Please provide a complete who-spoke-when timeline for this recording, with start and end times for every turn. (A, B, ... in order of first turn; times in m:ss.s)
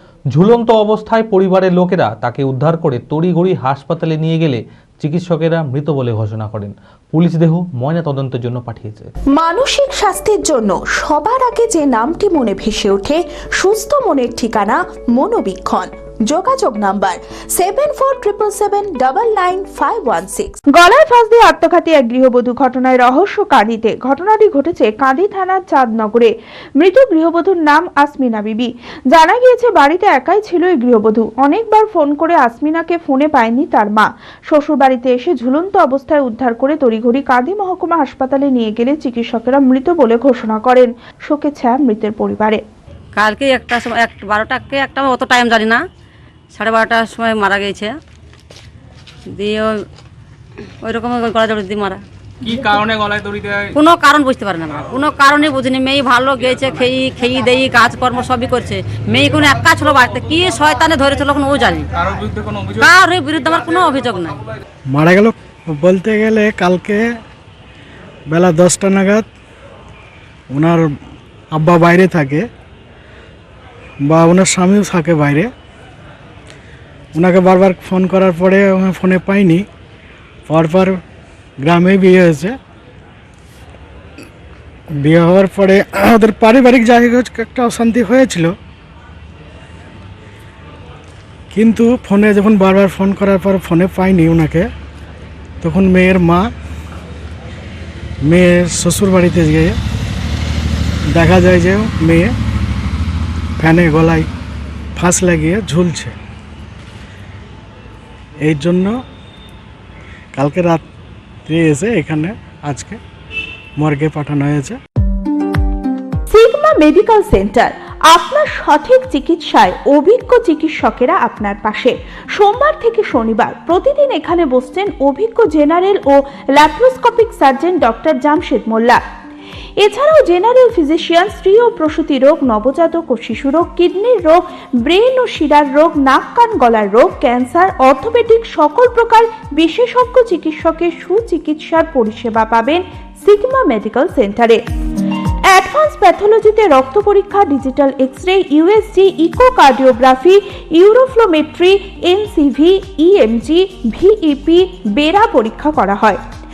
0:00.3-0:09.1 A
0:09.3-0:20.6 B
0:20.8-0:42.6 C
0:43.2-0:45.8 D
0:46.5-0:47.9 D
0:49.3-0:49.7 D
0:50.8-0:52.0 D
0:52.4-0:53.7 E
0:53.7-1:01.9 D
1:02.0-1:02.8 E
1:02.7-1:04.4 D
1:04.9-1:07.1 F
1:08.3-1:09.2 F
1:10.5-1:10.9 F
1:11.5-1:12.5 F
1:14.0-1:15.5 F
1:17.2-1:19.6 F
1:20.4-1:21.0 F
1:21.6-1:22.6 F
1:25.0-1:28.5 F
1:31.5-1:34.7 F
1:35.6-1:36.5 F
1:38.2-1:39.8 F
1:41.1-1:42.3 F
1:43.6-1:44.3 F
1:45.0-1:46.1 F
1:48.4-1:49.0 F
1:50.3-1:50.8 F
1:51.4-1:53.0 F
1:53.8-1:54.8 F
1:56.3-2:09.0 C
2:09.8-2:24.6 C
2:25.5-2:36.2 C